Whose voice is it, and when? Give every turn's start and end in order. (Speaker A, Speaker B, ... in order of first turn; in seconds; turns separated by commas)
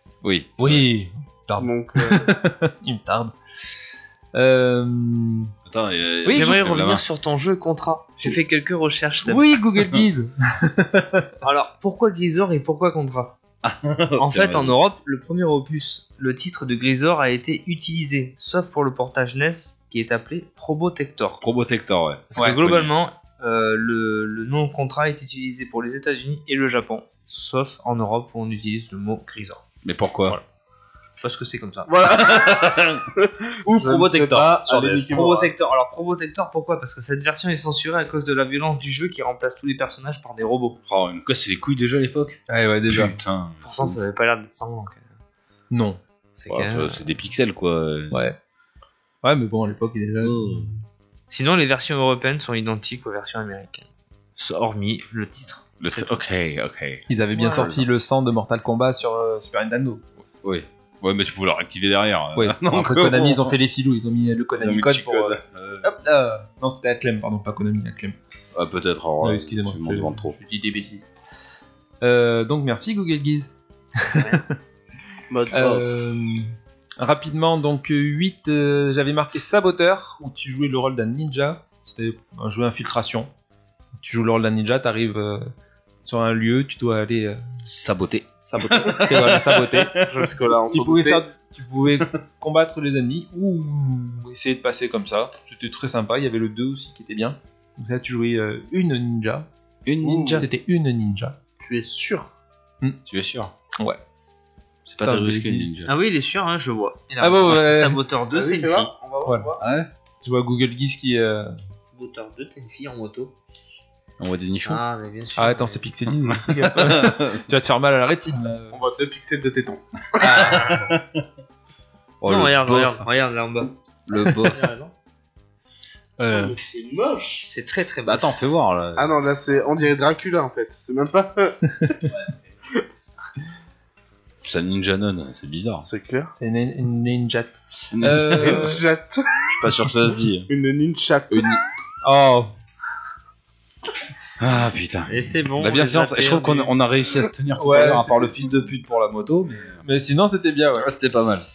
Speaker A: 0.2-0.8, Speaker B: 0.6-3.3, Speaker C: 1.6-2.3, Speaker B: 4.3-5.5, Speaker A: 5.7-7.0, Speaker B: 6.2-6.5, Speaker D: 6.3-9.6, Speaker B: 9.2-11.3, Speaker D: 11.4-13.3, Speaker A: 13.6-14.8, Speaker D: 14.2-21.4, Speaker A: 21.4-22.9, Speaker D: 22.3-29.6, Speaker A: 29.8-30.4, Speaker D: 31.2-31.9, Speaker C: 31.9-32.9, Speaker A: 32.0-33.1, Speaker A: 33.6-35.2, Speaker C: 33.7-35.5, Speaker D: 35.0-40.8, Speaker A: 40.9-44.0, Speaker B: 42.5-43.2, Speaker D: 43.6-45.1, Speaker B: 45.7-46.0, Speaker D: 46.4-47.0, Speaker A: 46.5-48.1, Speaker B: 48.1-48.4, Speaker B: 49.2-50.8, Speaker A: 50.2-50.7, Speaker D: 51.3-56.2, Speaker A: 55.8-57.8, Speaker B: 57.1-60.0, Speaker D: 57.3-57.7, Speaker A: 60.4-63.5, Speaker B: 62.4-68.2, Speaker A: 64.5-65.9, Speaker A: 68.5-70.3, Speaker B: 69.2-71.1, Speaker B: 72.0-74.5, Speaker C: 75.3-75.9, Speaker B: 75.5-83.3, Speaker B: 84.0-85.5, Speaker B: 86.0-87.4, Speaker A: 87.6-90.3, Speaker B: 88.4-89.9, Speaker C: 90.1-91.2, Speaker B: 90.7-99.5, Speaker A: 99.8-100.5, Speaker C: 100.0-100.5, Speaker B: 100.4-101.4, Speaker C: 101.6-102.3, Speaker A: 103.0-103.5, Speaker A: 104.8-105.9, Speaker B: 105.0-105.7, Speaker D: 105.8-108.9, Speaker B: 107.2-108.0, Speaker C: 108.3-109.6, Speaker B: 109.2-109.5, Speaker A: 109.6-109.9, Speaker B: 110.2-111.5, Speaker D: 111.9-113.3, Speaker A: 114.2-114.8, Speaker D: 114.6-115.8, Speaker B: 115.4-118.8, Speaker A: 116.2-117.4, Speaker C: 118.7-120.6, Speaker A: 120.2-121.2, Speaker B: 120.2-120.8, Speaker A: 122.2-123.1, Speaker D: 122.2-123.7, Speaker A: 124.1-124.6, Speaker D: 124.3-124.9, Speaker B: 126.2-126.5, Speaker C: 126.3-127.5, Speaker D: 127.4-128.4, Speaker A: 128.1-129.2, Speaker C: 128.9-131.9, Speaker B: 131.8-132.1, Speaker A: 134.4-135.8, Speaker C: 135.8-136.3, Speaker B: 136.3-138.8, Speaker A: 137.9-138.7, Speaker C: 138.4-139.4, Speaker A: 139.5-140.5, Speaker C: 140.5-141.6, Speaker A: 141.3-141.6, Speaker B: 142.0-142.5, Speaker A: 144.4-149.8, Speaker D: 145.1-146.7, Speaker B: 147.5-148.3, Speaker B: 149.8-150.9, Speaker A: 150.8-151.4